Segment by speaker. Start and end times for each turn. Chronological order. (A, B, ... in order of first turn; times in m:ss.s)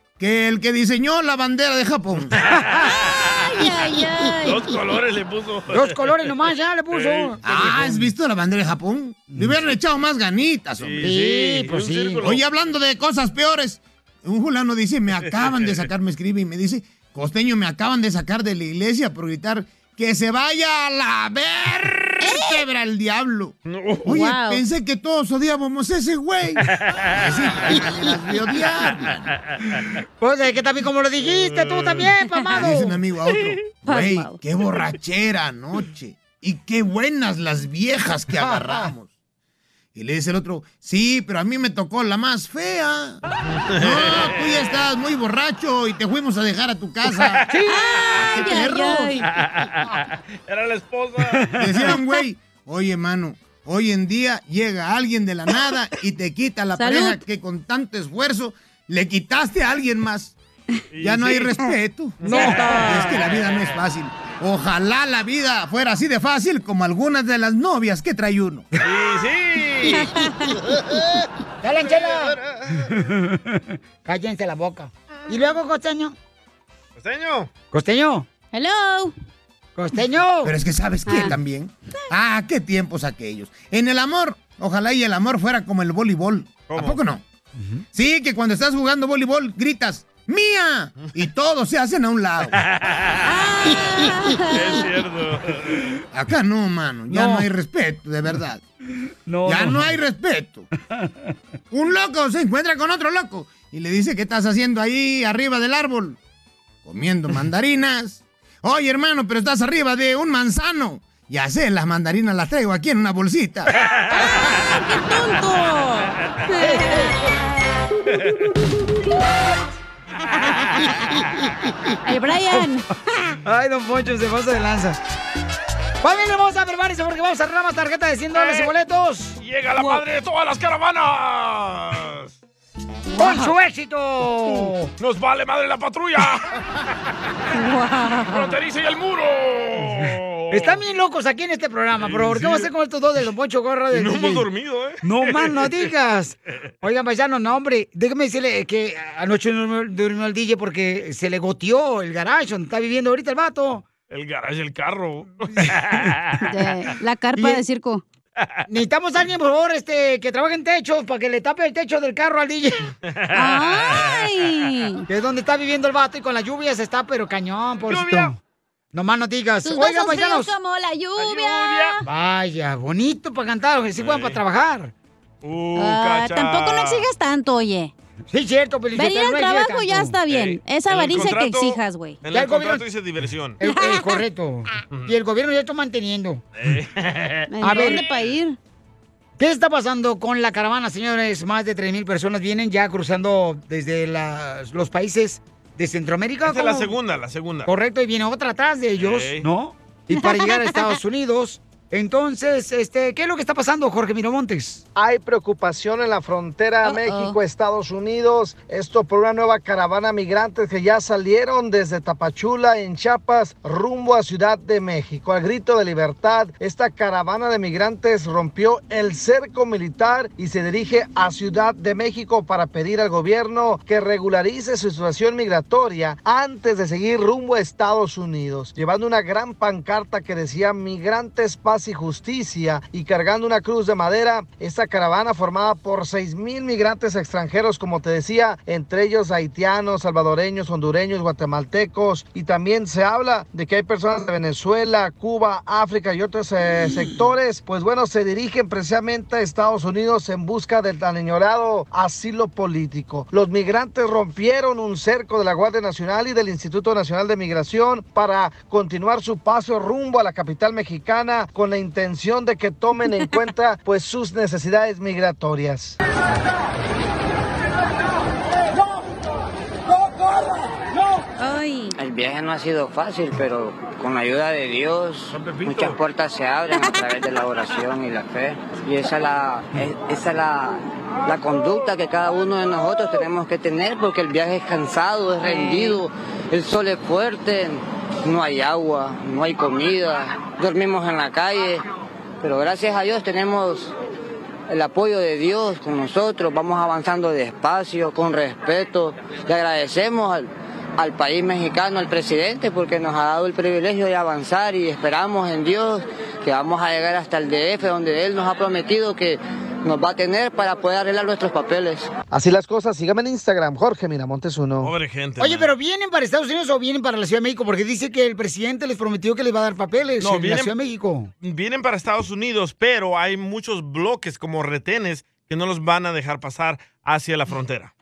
0:00.2-0:02.3 A
0:02.4-0:03.6 B
0:02.4-0:03.0 C
0:03.4-0:04.6 D
0:04.4-0:06.3 B
0:05.7-0:08.1 C
0:06.9-0:07.4 B
0:07.4-0:11.1 A
0:09.3-0:09.7 C
0:10.8-0:12.4 B
0:11.0-0:12.2 C
0:12.2-0:29.3 A
0:15.4-0:15.8 B
0:22.2-0:22.6 D
0:23.7-0:24.1 B
0:24.1-0:24.6 D
0:26.7-0:27.8 B
0:30.2-0:33.0 C
0:31.2-0:32.1 B
0:32.6-0:39.1 A
0:33.8-0:34.4 D
0:38.4-0:38.9 C
0:39.9-0:43.2 A
0:43.5-0:44.7 B
0:43.8-0:47.5 A
0:47.5-0:47.8 C
0:47.6-0:49.3 D
0:48.1-0:49.2 A
0:49.2-0:52.0 B
0:51.6-1:00.4 A
0:56.8-0:57.2 D
1:00.9-1:01.6 B
1:01.0-1:08.6 A
1:02.2-1:03.6 B
1:02.2-1:02.9 C
1:02.3-1:03.1 D
1:08.8-1:11.2 B
1:09.9-1:10.5 D
1:11.6-1:16.2 C
1:11.9-1:13.0 B
1:17.0-1:17.5 B
1:17.7-1:18.3 C
1:18.5-1:19.1 D
1:19.8-1:20.6 C
1:20.4-1:27.2 A
1:21.1-1:21.4 D
1:26.7-1:27.0 B
1:27.6-1:27.8 C
1:27.9-1:32.6 A
1:32.5-1:35.9 B
1:33.3-1:34.8 D
1:36.1-1:38.6 A
1:37.1-1:37.5 C
1:39.3-1:40.0 C
1:39.5-1:40.7 A
1:41.7-1:46.2 A
1:46.8-1:53.7 A
1:54.1-1:57.3 D
1:56.7-1:57.1 C
2:00.5-2:00.9 B
2:02.0-2:03.4 D
2:03.4-2:05.0 C
2:06.0-2:09.4 C
2:08.4-2:08.7 B
2:09.4-2:12.3 B
2:13.1-2:13.5 D
2:13.2-2:14.9 C
2:14.5-2:16.5 B
2:17.5-2:18.5 D
2:18.3-2:20.8 B
2:20.5-2:24.5 C
2:22.0-2:22.7 B
2:23.9-2:25.8 B
2:25.0-2:33.9 C
2:34.1-2:36.5 B
2:35.6-2:36.0 C
2:36.4-2:38.0 D
2:37.4-2:37.6 C
2:38.7-2:42.8 C
2:43.1-2:44.2 B
2:43.3-2:45.0 D
2:45.1-2:48.4 C
2:47.9-2:48.4 B
2:48.9-2:50.5 C
2:49.6-2:52.0 D
2:51.2-2:52.0 B
2:52.0-2:54.9 C
2:54.0-2:54.4 B
2:55.4-2:57.0 B
2:55.8-2:57.9 D
2:58.3-3:00.2 C
2:59.0-3:02.2 D
3:00.3-3:03.6 B
3:02.3-3:02.9 C
3:03.6-3:06.4 C
3:03.7-3:04.2 D
3:06.6-3:08.3 B
3:07.5-3:08.6 D
3:07.6-3:08.0 C
3:09.4-3:17.0 C
3:16.4-3:17.7 B
3:17.6-3:24.8 C
3:19.0-3:19.5 B
3:20.2-3:21.0 D
3:25.0-4:26.0 E
3:26.8-3:27.4 D
4:31.4-4:31.9 D
4:32.0-4:51.8 F
4:35.3-4:36.0 B
4:45.4-4:46.0 D
4:52.4-4:53.9 F
4:54.7-5:12.1 F
5:12.3-5:14.9 E
5:14.8-5:15.7 B
5:15.4-5:21.3 C
5:20.2-5:20.7 B
5:21.4-5:27.9 B